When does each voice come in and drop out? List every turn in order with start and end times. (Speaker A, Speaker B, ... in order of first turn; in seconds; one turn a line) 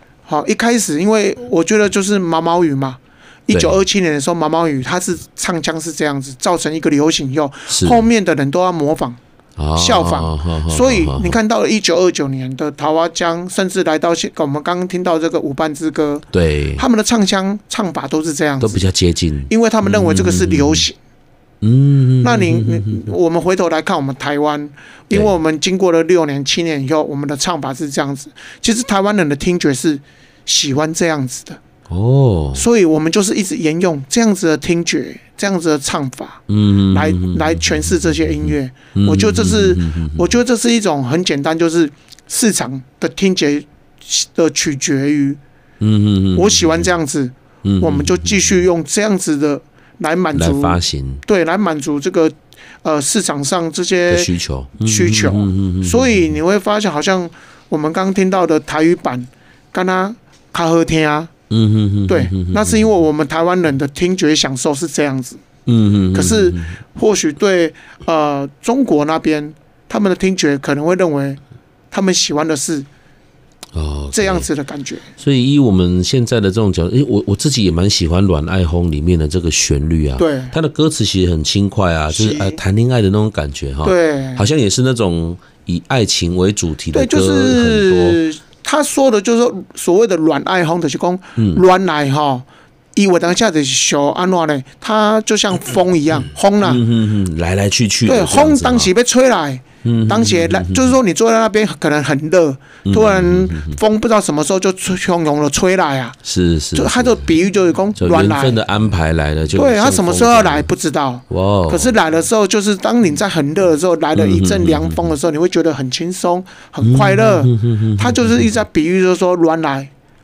Speaker A: 0.3-9.2
Speaker B: 3.5-3.8
Speaker B: 7.7-8.0
Speaker B: 9.6-11.4
Speaker A: 9.8-16.2
Speaker B: 16.3-16.8
Speaker A: 16.8-18.8
Speaker B: 18.6-20.9
Speaker A: 19.5-20.9
Speaker B: 21.6-23.1
Speaker A: 22.2-31.6
Speaker B: 31.9-32.6
Speaker A: 32.5-45.4
Speaker B: 36.5-37.6
Speaker B: 38.5-40.3
Speaker B: 45.8-46.8
Speaker A: 46.3-54.3
Speaker B: 47.6-48.4
Speaker B: 50.3-51.2
Speaker B: 54.1-56.2
Speaker A: 54.8-61.3
Speaker B: 61.5-62.9
Speaker A: 62.1-65.4
Speaker B: 65.7-66.8
Speaker A: 66.1-71.4
Speaker A: 71.9-72.8
Speaker B: 73.7-74.5
Speaker A: 74.1-75.1
Speaker B: 75.2-88.2
Speaker A: 80.2-80.5
Speaker A: 82.1-82.6
Speaker A: 83.8-84.4
Speaker A: 86.9-96.8
Speaker B: 96.6-98.9
Speaker A: 98.0-106.2
Speaker B: 99.8-100.9
Speaker B: 102.8-103.8
Speaker B: 106.2-107.2
Speaker A: 106.7-108.6
Speaker B: 108.0-110.7
Speaker A: 109.5-119.9
Speaker B: 111.3-111.9
Speaker B: 114.1-115.1
Speaker B: 116.8-118.3